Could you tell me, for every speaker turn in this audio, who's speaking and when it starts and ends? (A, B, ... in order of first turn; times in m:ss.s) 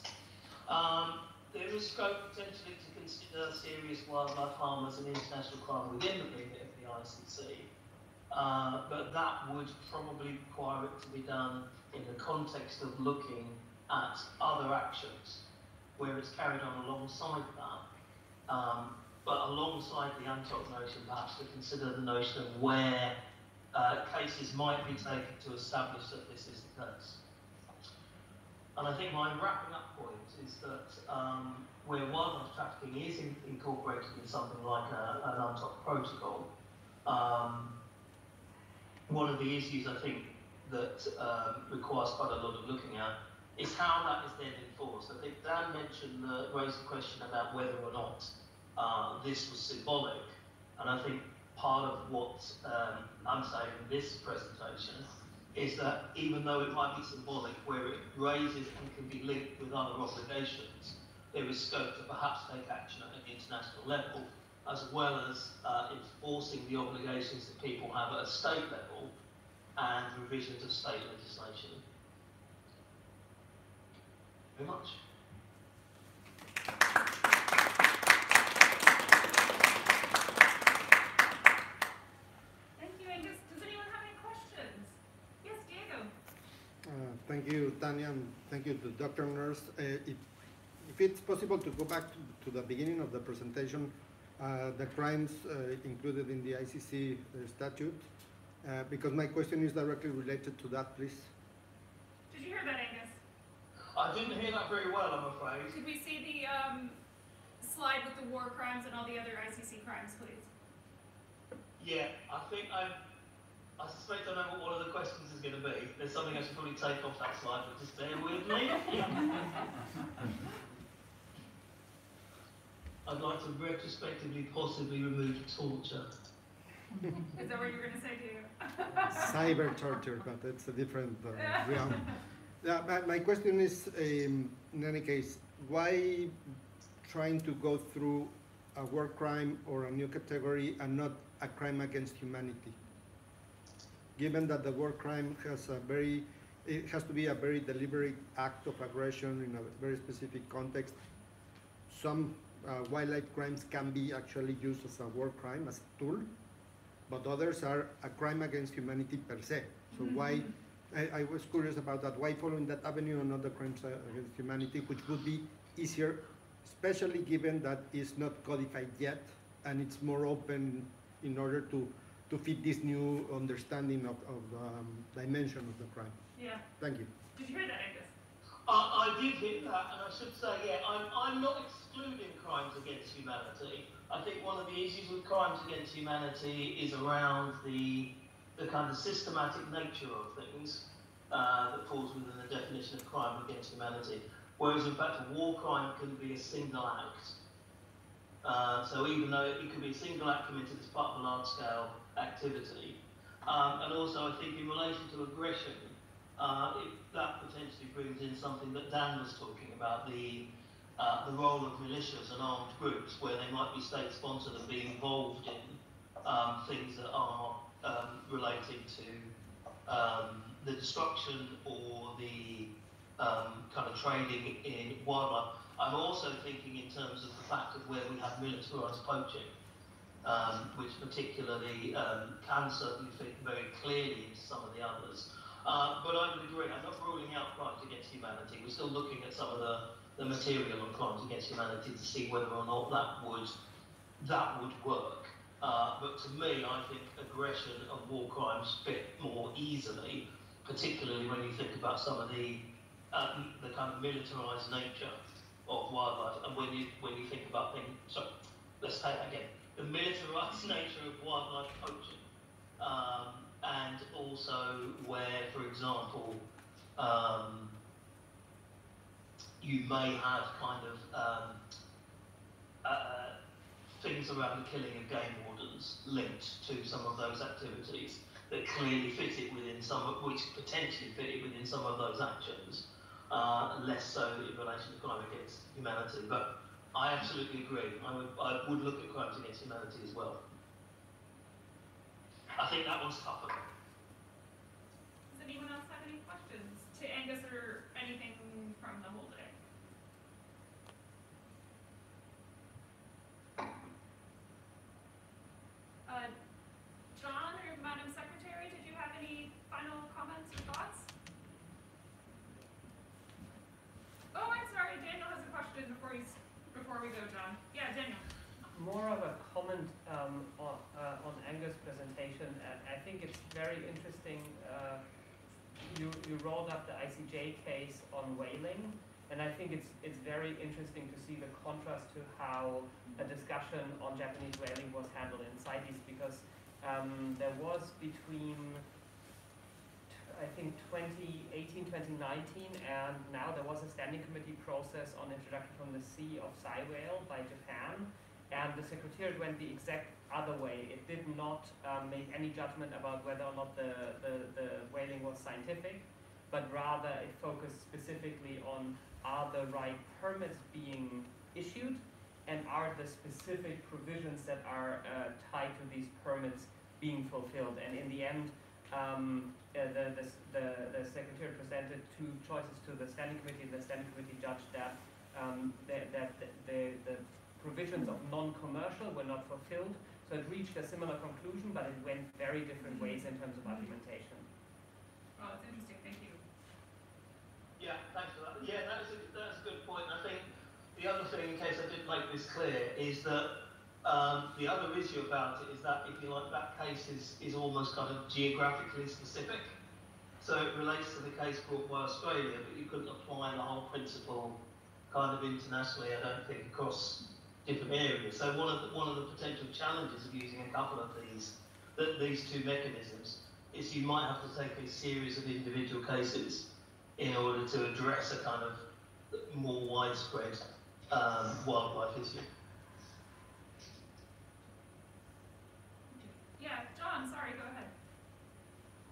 0:00.7-0:07.7 A
0:08.3-0:15.4 A
0:16.0-0:17.8 A
0:18.5-0:23.1 A
0:23.7-0:27.2 A
0:28.7-0:36.5 A
0:37.0-0:37.7 A
0:39.1-1:09.1 A
1:09.8-1:11.8 A
1:14.5-1:15.0 A
1:22.8-1:26.1 B
1:26.8-1:30.2 C
1:30.8-1:38.1 C
1:38.6-1:41.3 C
1:42.3-1:43.2 B
1:43.9-1:45.7 A
1:45.7-1:47.0 B
1:47.6-1:50.5 B
1:51.8-1:53.0 A
1:53.8-1:59.4 A
2:03.0-2:06.1 A
2:07.3-2:09.5 B
2:09.1-2:22.8 C
2:11.3-2:12.1 B
2:24.2-2:31.0 C
2:31.9-2:36.3 C
2:37.1-2:56.2 C
2:40.0-2:40.5 B
2:56.3-2:56.6 B
2:56.8-2:57.1 C
2:57.3-2:58.1 B
2:58.6-3:17.4 A
3:18.4-3:39.3 A
3:39.8-3:49.5 A
3:50.2-4:03.6 A
4:04.2-4:18.3 A
4:18.8-4:22.2 A
4:22.8-4:26.4 A
4:27.0-4:27.7 A
4:29.6-4:31.6 A
4:32.8-4:33.3 A
4:33.9-4:50.4 A
4:52.6-4:53.6 A
4:55.3-4:59.5 B
5:06.0-5:06.3 B
5:07.1-5:11.1 B
5:14.3-5:18.2 B
5:18.7-5:25.0 D
5:25.8-5:38.8 D
5:40.1-6:24.5 D
6:22.8-6:23.9 B
6:25.4-6:26.4 B
6:27.8-6:33.5 A
6:34.0-6:39.7 A
6:40.4-6:44.6 A
6:45.1-6:56.6 A
6:57.2-7:02.4 A
7:06.1-7:07.9 B